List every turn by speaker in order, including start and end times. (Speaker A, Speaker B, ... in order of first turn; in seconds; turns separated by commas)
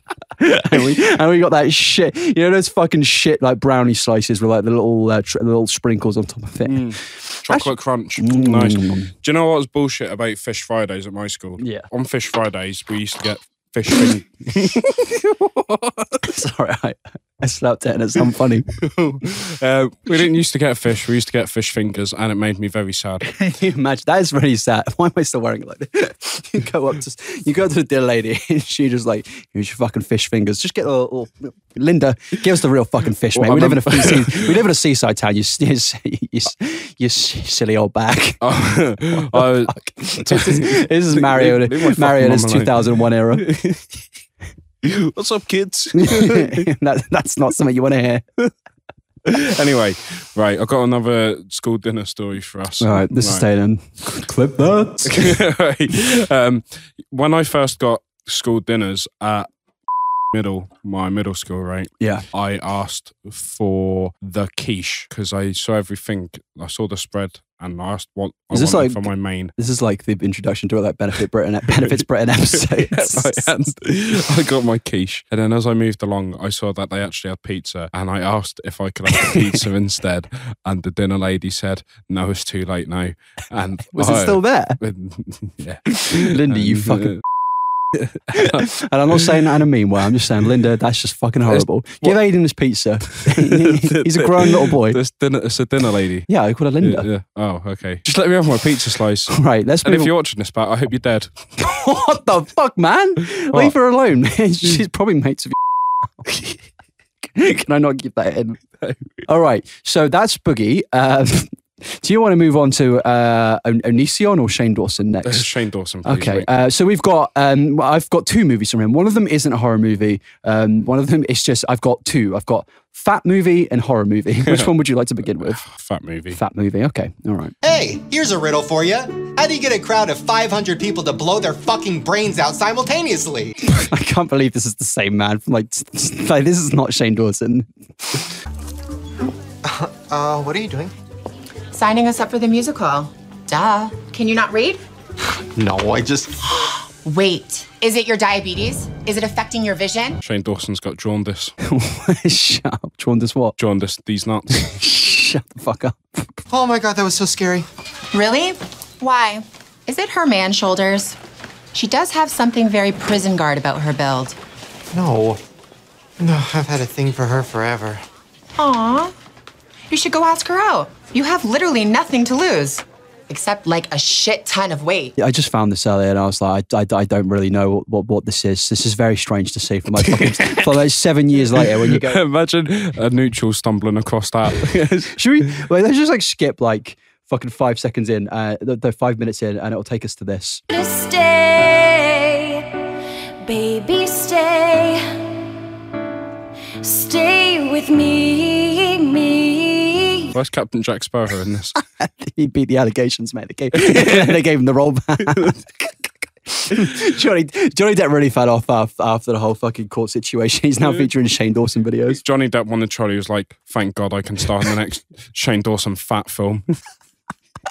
Speaker A: 0.4-6.9, Speaker B: 6.7-16.2, Speaker A: 7.5-9.1, Speaker A: 11.6-11.8, Speaker A: 16.2-19.2, Speaker B: 19.2-23.2, Speaker A: 23.3-38.4, Speaker B: 33.3-34.6, Speaker B: 38.4-43.8, Speaker A: 39.1-43.4, Speaker B: 44.8-46.7, Speaker A: 46.0-48.2, Speaker B: 49.2-53.5, Speaker A: 52.8-55.4, Speaker B: 55.0-59.5, Speaker B: 60.3-69.5, Speaker A: 62.0-62.2, Speaker A: 68.5-69.0, Speaker A: 69.5-73.7, Speaker B: 72.5-87.2, Speaker A: 83.9-84.8, Speaker A: 86.0-87.2, Speaker B: 87.9-88.7, Speaker A: 88.3-95.0, Speaker B: 91.5-92.2, Speaker B: 93.1-96.3, Speaker A: 96.3-97.1, Speaker B: 96.8-101.4, Speaker A: 99.3-100.1, Speaker A: 101.6-105.6, Speaker A: 107.3-108.6, Speaker A: 109.2-115.5, Speaker B: 115.2-116.5, Speaker A: 116.0-125.6, Speaker B: 124.4-124.7, Speaker B: 125.5-126.4, Speaker A: 126.3-127.5, Speaker C: 127.6-133.5, Speaker A: 133.7-138.2, Speaker C: 139.6-140.9, Speaker D: 141.7-144.8, Speaker C: 145.3-146.7, Speaker D: 147.0-150.2, Speaker B: 150.2-151.5, Speaker A: 151.6-153.6, Speaker B: 153.6-154.7, Speaker A: 154.5-156.4, Speaker C: 156.5-157.7, Speaker D: 158.1-161.2, Speaker D: 161.7-164.4, Speaker C: 164.9-165.4, Speaker C: 166.2-168.0, Speaker D: 168.6-169.1, Speaker D: 169.9-175.1, Speaker A: 175.2-182.2, Speaker B: 180.0-180.7, Speaker B: 181.4-185.2, Speaker A: 185.1-190.6, Speaker E: 190.7-192.8, Speaker E: 193.4-195.1, Speaker E: 196.8-200.3, Speaker B: 200.3-201.8, Speaker A: 201.8-205.6, Speaker B: 203.8-204.4, Speaker A: 206.5-212.2, Speaker B: 212.2-216.7